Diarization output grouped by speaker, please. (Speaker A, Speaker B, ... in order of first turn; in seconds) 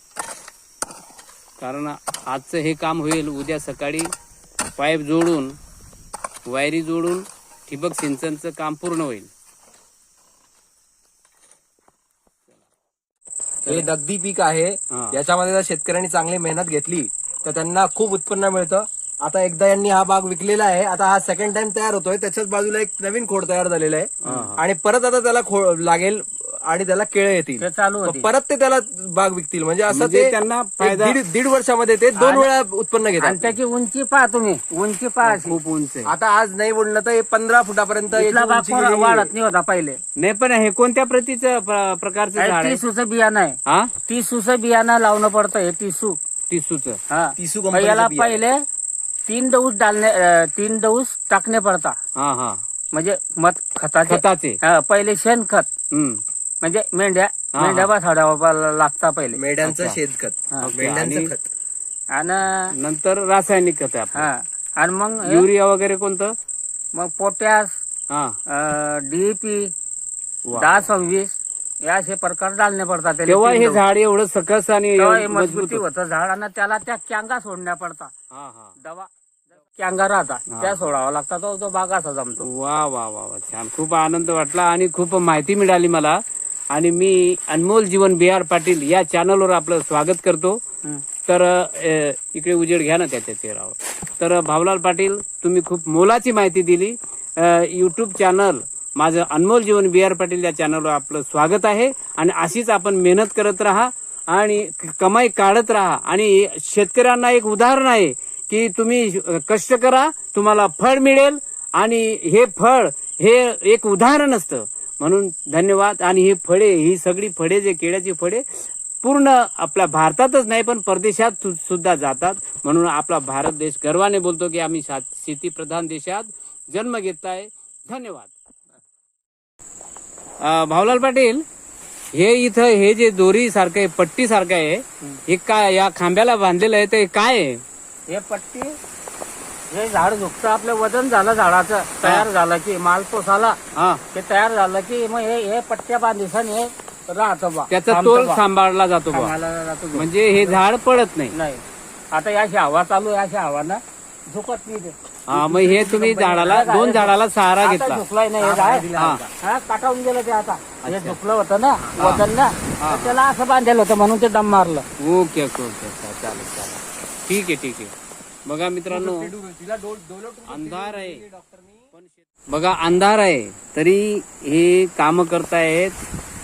Speaker A: 1.6-4.1, 4.8-5.6, 6.5-9.3, 13.7-13.9, 14.9-15.2, 24.2-24.6, 29.9-31.2, 35.2-36.1, 40.2-42.8, 43.7-43.9, 46.5-47.0, 52.2-52.6, 54.1-54.6, 55.9-56.2, 57.5-57.9, 59.6-60.0, 60.6-61.3, 62.7-64.3, 65.2-66.4, 68.1-68.4, 70.5-70.9, 73.2-75.8, 78.3-78.8, 80.5-80.9, 82.4-90.6, 91.3-128.3, 130.4-131.4, 132.1-137.6, 143.8-144.0, 147.7-149.3, 149.9-151.3, 155.3-158.0, 158.9-159.2, 160.8-161.2, 161.9-162.2, 162.8-163.2, 165.0-167.9, 168.5-169.3, 170.5-171.2, 171.9-176.0
Speaker B: 13.7-33.6, 36.0-39.3, 47.4-48.4, 59.3-61.5, 158.4-159.2, 168.9-171.9
Speaker C: 27.6-28.3, 32.2-32.5, 33.2-35.6, 38.1-40.0, 42.4-46.2, 47.1-48.6, 49.3-52.0, 52.9-55.7, 56.6-59.4, 62.1-62.7, 64.1-65.5, 67.0-67.8, 68.5-69.7, 70.5-71.3, 71.8-73.8, 75.0-78.1, 78.8-79.1, 79.6-82.5, 138.1-138.8, 139.7-143.6, 144.1-148.4, 149.1-150.6, 151.3-164.9